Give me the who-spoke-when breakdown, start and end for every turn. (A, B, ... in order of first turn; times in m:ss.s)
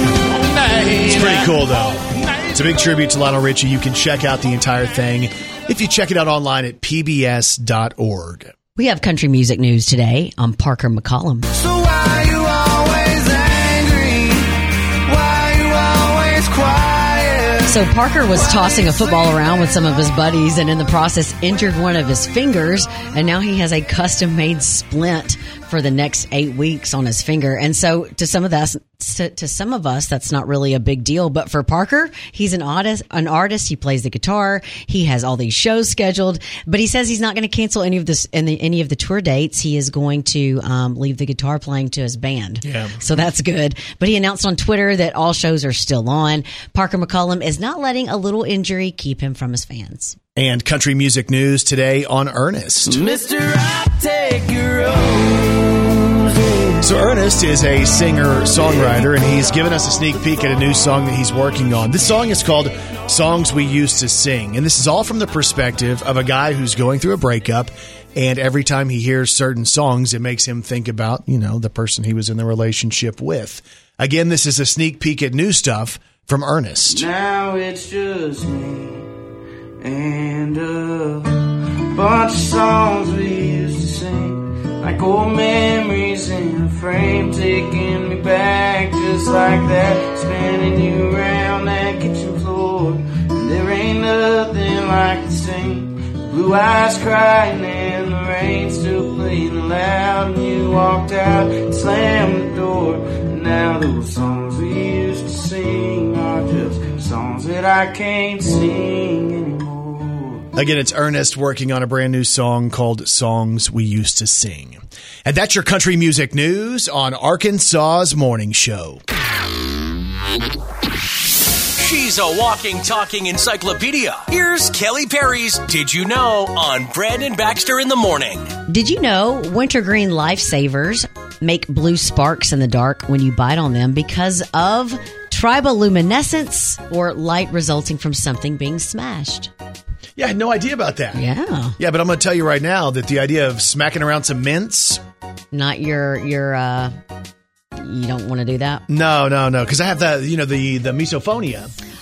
0:00.2-0:02.8 A
0:01.0-0:08.5 B
0:08.8-0:11.5 C
0:11.5-0:19.3 D
0:17.6-0:50.2 C
0:42.6-0:43.0 B
0:50.4-0:53.0 B
0:52.8-0:56.8 D
0:56.8-1:17.1 B
1:16.9-1:19.1 D
1:19.8-1:50.4 D
1:50.5-1:59.0 B
2:01.8-2:08.5 E
2:08.7-2:19.5 C
2:20.2-2:21.2 B
2:21.1-2:21.8 C
2:21.8-2:25.0 B
2:25.5-2:26.9 C
2:27.8-2:28.8 C
2:28.9-2:31.7 B